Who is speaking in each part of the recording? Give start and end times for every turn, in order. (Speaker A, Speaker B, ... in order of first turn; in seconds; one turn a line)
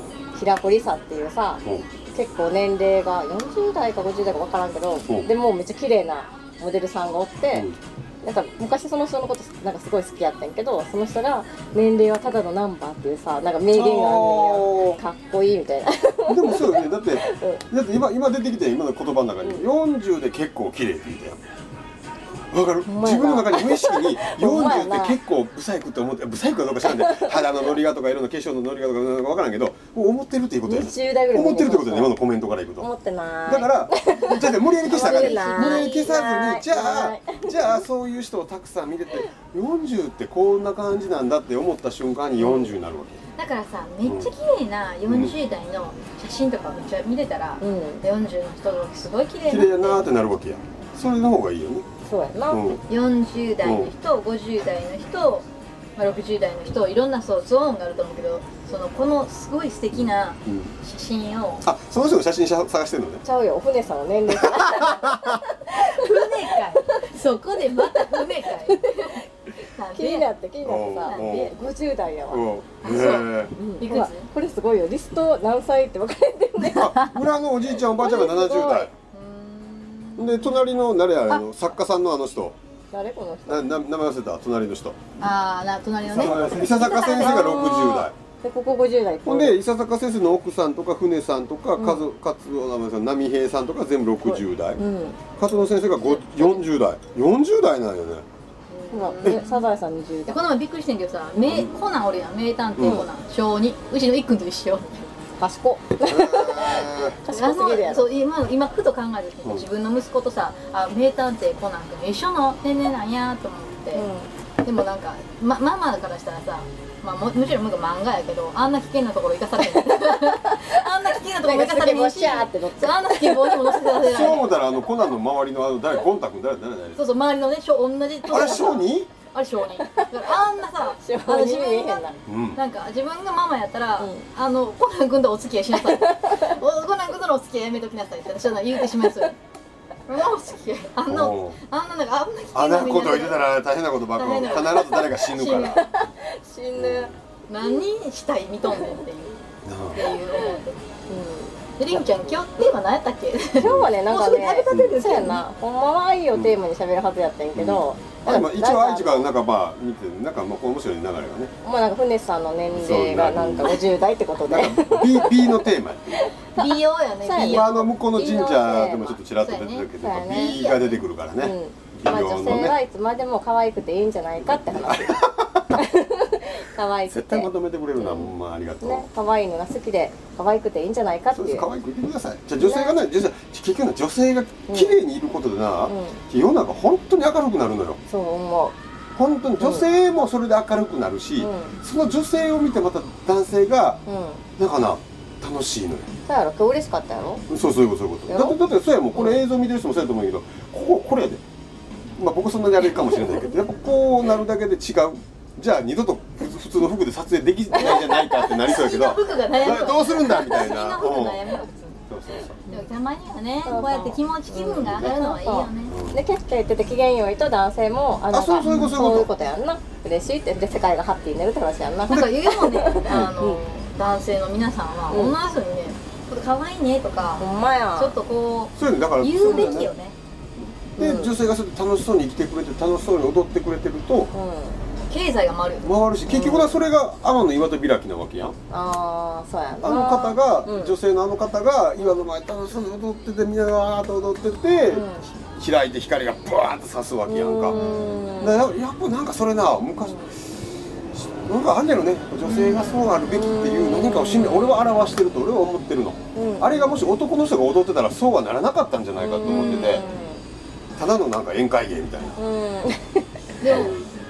Speaker A: 0.3-17.6
Speaker B: 7.5-7.8
Speaker B: 13.7-15.0
Speaker B: 16.2-21.4
Speaker B: 22.5-32.9
Speaker A: 22.9-25.2
Speaker A: 26.8-27.5
Speaker A: 30.6-32.1
Speaker A: 32.8-37.8
Speaker B: 33.5-43.2
Speaker C: 34.9-36.1
Speaker A: 42.4-42.7
Speaker C: 43.4-50.0
Speaker B: 44.0-44.3
Speaker B: 45.1-45.3
Speaker A: 47.6-48.0
Speaker B: 49.5-51.9
Speaker A: 52.0-52.8
Speaker B: 52.5-52.8
Speaker C: 52.9-55.5
Speaker B: 53.6-53.9
Speaker C: 56.0-61.7
Speaker B: 59.9-60.7
Speaker B: 61.6-63.2
Speaker A: 63.2-66.6
Speaker B: 64.3-65.4
Speaker C: 65.7-70.3
Speaker A: 67.8-69.2
Speaker A: 69.9-72.4
Speaker B: 70.6-71.5
Speaker C: 71.0-71.5
Speaker B: 72.3-73.5
Speaker C: 72.8-74.3
Speaker A: 73.6-77.0
Speaker B: 76.7-78.9
Speaker A: 77.8-78.9
Speaker C: 79.1-80.6
Speaker B: 80.2-82.5
Speaker A: 82.9-83.8
Speaker B: 83.5-85.0
Speaker C: 85.2-87.7
Speaker B: 86.1-88.1
Speaker A: 86.9-89.6
Speaker B: 89.2-94.8
Speaker A: 91.8-92.0
Speaker A: 94.2-95.2
Speaker B: 95.4-98.2
Speaker C: 98.7-99.7
Speaker A: 98.9-100.4
Speaker C: 100.3-105.2
Speaker B: 101.4-101.8
Speaker B: 102.8-103.0
Speaker A: 102.8-103.1
Speaker A: 105.4-108.1
Speaker B: 106.0-107.2
Speaker C: 107.3-114.1
Speaker A: 113.9-114.3
Speaker C: 114.6-124.5
Speaker A: 119.7-120.7
Speaker A: 121.3-124.0
Speaker B: 124.0-127.1
Speaker C: 127.0-139.4
Speaker B: 128.3-129.1
Speaker A: 128.4-128.7
Speaker A: 129.8-130.3
Speaker A: 130.9-132.2
Speaker B: 132.3-132.6
Speaker A: 134.0-134.3
Speaker A: 135.7-136.4
Speaker A: 138.8-139.3
Speaker C: 140.1-143.5
Speaker B: 141.1-141.6
Speaker B: 142.5-145.9
Speaker C: 144.2-145.8
Speaker A: 144.7-147.8
Speaker B: 146.8-147.2
Speaker C: 147.5-149.4
Speaker A: 148.7-149.0
Speaker B: 149.6-150.1
Speaker C: 149.9-150.8
Speaker A: 150.3-152.7
Speaker C: 151.8-155.4
Speaker A: 153.5-159.3
Speaker B: 153.6-153.9
Speaker B: 154.7-155.0
Speaker B: 157.6-161.5
Speaker A: 161.6-165.5
Speaker B: 162.7-163.8
Speaker B: 164.4-166.3
Speaker A: 166.2-169.2
Speaker C: 166.5-167.9
Speaker B: 167.3-172.8
Speaker C: 169.3-171.0
Speaker A: 170.0-170.6
Speaker A: 171.4-175.2
Speaker B: 174.4-175.8
Speaker A: 175.7-181.7
Speaker B: 177.1-179.1
Speaker B: 181.3-188.0
Speaker A: 182.6-183.0
Speaker A: 184.7-185.0
Speaker A: 185.9-186.2
Speaker A: 188.1-188.8
Speaker B: 189.2-194.0
Speaker A: 189.6-189.9
Speaker A: 191.4-191.8
Speaker A: 194.1-194.4
Speaker B: 194.6-196.1
Speaker A: 196.3-197.5
Speaker B: 197.5-201.4
Speaker A: 198.3-198.6
Speaker A: 199.2-199.4
Speaker B: 202.2-211.5
Speaker A: 207.7-208.2
Speaker C: 208.1-212.0
Speaker B: 212.1-212.6
Speaker C: 212.7-216.0
Speaker A: 213.7-223.6
Speaker B: 214.8-215.2
Speaker B: 215.9-216.2
Speaker B: 218.3-219.3
Speaker C: 218.6-218.9
Speaker C: 222.1-230.2
Speaker B: 223.1-223.3
Speaker A: 225.1-225.3
Speaker A: 227.4-228.2
Speaker B: 228.8-229.9
Speaker B: 231.0-234.3
Speaker A: 231.0-231.3
Speaker A: 234.3-234.8
Speaker C: 235.1-235.9
Speaker B: 235.8-238.6
Speaker A: 236.3-236.8
Speaker A: 238.7-241.0
Speaker B: 239.8-247.8
Speaker A: 244.9-245.3
Speaker A: 247.3-248.6
Speaker C: 247.7-248.1
Speaker B: 248.4-250.3
Speaker A: 250.0-250.3
Speaker B: 251.1-260.0
Speaker A: 252.5-254.7
Speaker A: 256.4-257.1
Speaker A: 259.1-260.4
Speaker C: 259.4-260.0
Speaker B: 261.0-262.4
Speaker A: 262.4-263.3
Speaker C: 263.6-264.0
Speaker B: 263.6-264.1